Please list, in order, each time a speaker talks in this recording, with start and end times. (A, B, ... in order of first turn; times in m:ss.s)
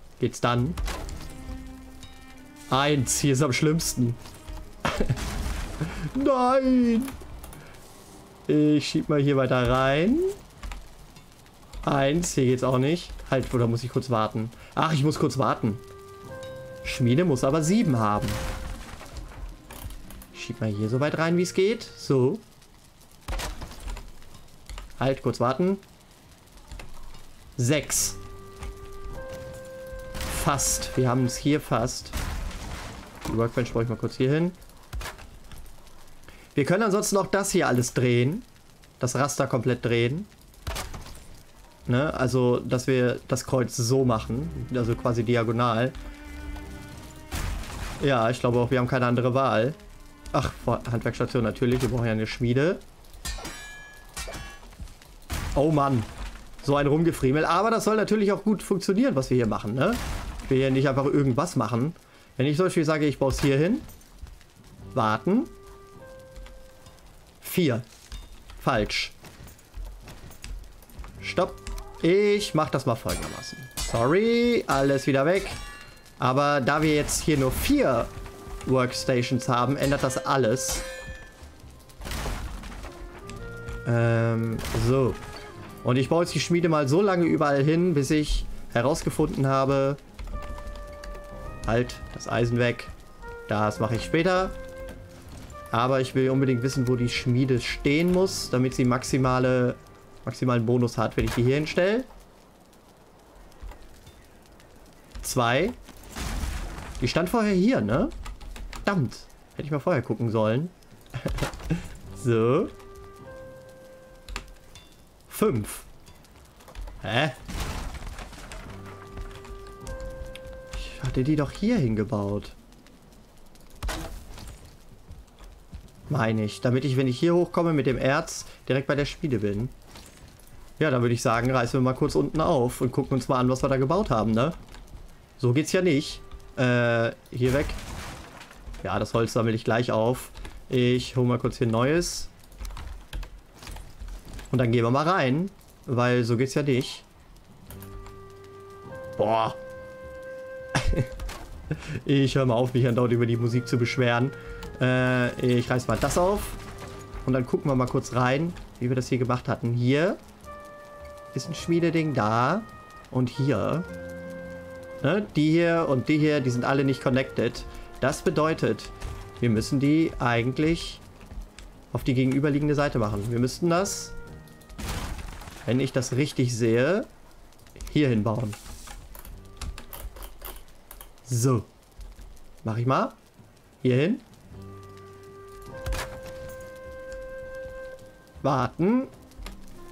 0:00.2-0:00.8 A
0:02.7-0:04.2 A
0:04.8-0:05.2 A
0:05.8-0:07.2 A
0:08.5-0:10.3 A
0:11.8-0:15.8 A
0:16.8-0:18.4 A
0:20.3-0:22.4 A
0:25.0-0:25.8 A
0:27.6-0:28.2 A
0:30.2-0:32.2 A
0:33.2-0:34.6 A
0:36.5-0:38.5 A
0:39.0-0:40.3 A
0:41.9-0:45.9 A
0:48.0-0:49.8 A
0:50.3-0:52.8 A
0:55.5-0:56.1 A
0:56.6-1:03.8 A
1:04.9-1:05.5 A
1:07.4-1:07.8 A
1:08.6-1:09.1 A
1:11.2-1:15.6 A
1:16.2-1:18.1 A
1:18.6-1:20.8 A
1:23.8-1:25.2 A
1:25.8-1:30.0 A
1:31.6-1:32.9 A
1:33.5-1:34.5 A
1:35.7-1:42.1 A
1:45.2-1:45.8 A
1:47.0-1:48.1 A
1:48.8-1:52.7 A
1:55.3-1:55.9 A
1:57.0-1:57.4 A
2:00.7-2:02.6 A
2:06.1-2:09.7 A
2:10.8-2:14.6 A
2:15.4-2:17.8 A
2:18.8-2:22.3 A
2:24.5-2:27.1 A
2:29.2-2:29.6 A
2:30.7-2:31.1 A
2:31.7-2:36.6 A
2:37.2-2:40.2 A
2:41.3-2:43.9 A
2:45.0-2:51.0 A
2:51.9-2:54.2 A
2:55.6-2:57.1 A
2:57.8-2:58.6 A
3:01.2-3:01.7 A
3:02.6-3:03.2 A
3:03.8-3:04.2 A
3:08.4-3:09.1 A